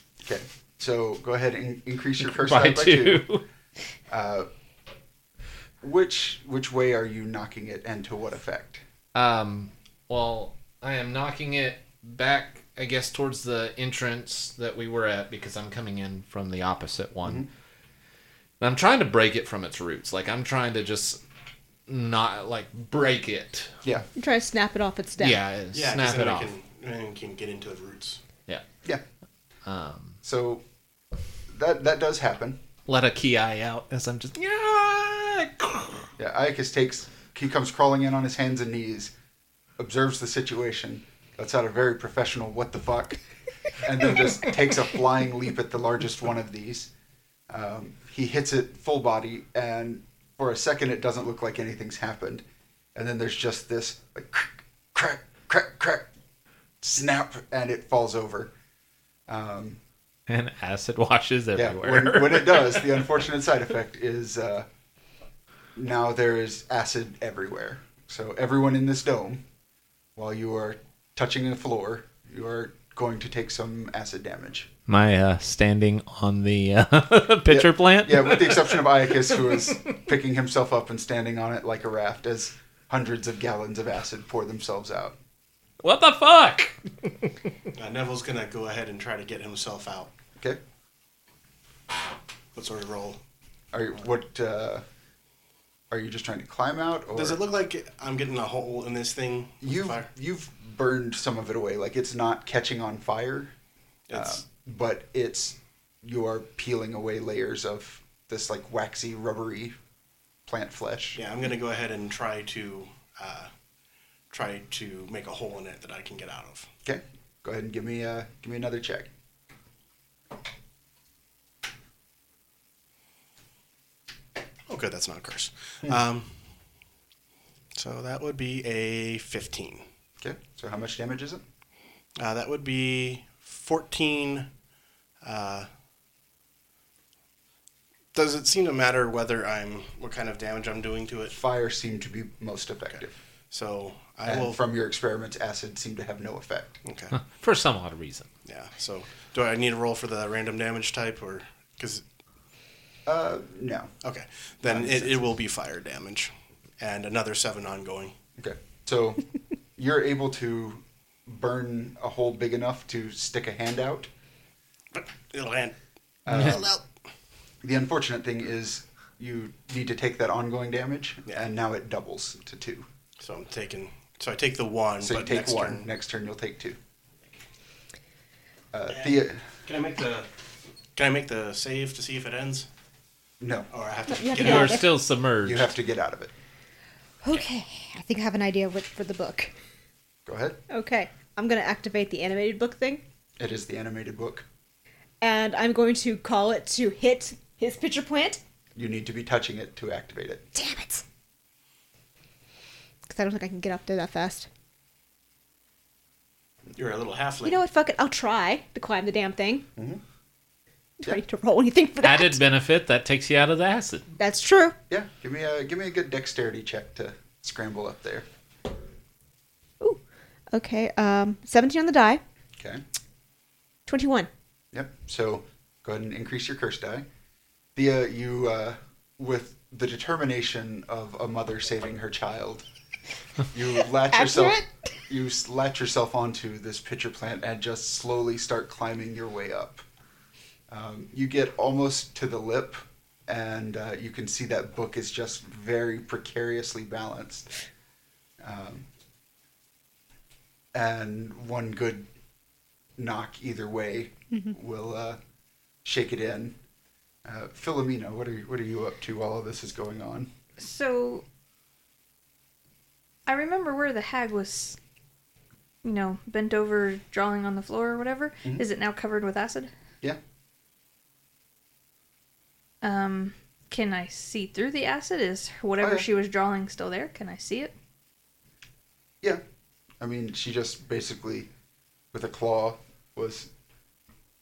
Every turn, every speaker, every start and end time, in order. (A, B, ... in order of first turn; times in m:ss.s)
0:00.2-0:03.2 A
0:02.2-0:03.4 B
0:04.1-0:04.5 A
0:05.8-0:08.8 A
0:09.1-0:17.5 B
0:18.6-0:21.2 B
0:21.9-0:23.8 B
0:24.2-0:25.4 C
0:25.2-0:26.5 B
0:25.7-0:28.2 D
0:29.6-0:30.2 B
0:30.2-0:30.6 A
0:31.5-0:32.6 A
0:32.9-0:36.1 B
0:36.2-0:39.1 A
0:39.8-0:43.2 A
0:43.8-0:46.9 A
0:47.5-0:52.4 A
0:52.9-0:56.1 A
0:56.8-0:58.5 A
0:59.3-0:59.8 A
1:00.3-1:02.9 B
1:01.5-1:04.7 A
1:05.7-1:09.4 A
1:10.2-1:14.7 A
1:14.9-1:20.0 B
1:17.5-1:25.2 A
1:25.8-1:27.3 B
1:27.7-1:30.1 D
1:32.5-1:33.2 D
1:33.7-1:34.8 A
1:35.9-1:37.4 A
1:37.1-1:40.1 D
1:39.6-1:43.5 A
1:44.1-1:44.4 D
1:44.1-1:49.8 A
1:50.4-1:51.2 A
1:51.1-1:53.5 D
1:54.3-1:56.7 D
1:56.8-1:59.1 A
2:04.7-2:06.5 D
2:07.7-2:09.8 D
2:10.2-2:11.4 A
2:12.2-2:14.5 D
2:15.2-2:15.7 D
2:18.1-2:21.4 D
2:21.3-2:23.2 A
2:23.5-2:24.6 D
2:24.2-2:26.8 A
2:26.8-2:27.2 D
2:27.1-2:28.3 B
2:28.4-2:32.0 D
2:33.0-2:33.9 A
2:34.0-2:38.1 D
2:34.6-2:35.2 A
2:38.4-2:39.2 A
2:39.8-2:44.1 A
2:44.9-2:45.8 D
2:46.2-2:46.6 A
2:46.3-2:46.8 D
2:47.6-2:52.9 A
2:53.2-2:55.9 D
2:55.0-2:56.8 A
2:58.7-2:59.5 A
2:58.9-3:00.3 D
3:00.9-3:02.7 D
3:03.4-3:03.7 A
3:03.7-3:04.8 D
3:04.1-3:04.9 C
3:04.4-3:05.7 B
3:05.4-3:06.3 A
3:07.2-3:09.5 C
3:10.2-3:10.6 A
3:10.7-3:13.0 C
3:13.4-3:14.4 A
3:15.2-3:18.4 C
3:18.7-3:20.5 A
3:20.5-3:21.0 C
3:23.1-3:24.5 C
3:26.8-3:27.6 D
3:27.4-3:29.6 C
3:29.8-3:30.0 A
3:31.0-3:32.4 C
3:32.0-3:34.1 B
3:34.2-3:34.8 C
3:34.9-3:38.2 A
3:39.8-3:42.2 C
3:43.9-3:44.3 C
3:44.7-3:47.0 A
3:47.7-3:52.6 A
3:53.5-3:59.8 A
3:54.1-3:54.9 C
4:00.7-4:07.5 A
4:08.4-4:08.8 A
4:10.7-4:12.1 A
4:13.0-4:15.2 A
4:15.8-4:16.6 A
4:17.2-4:20.3 A
4:20.6-4:21.2 E
4:23.2-4:24.8 E
4:25.8-4:29.7 E
4:32.8-4:37.7 E
4:35.8-4:36.0 A
4:40.0-4:41.5 A
4:42.1-4:43.5 A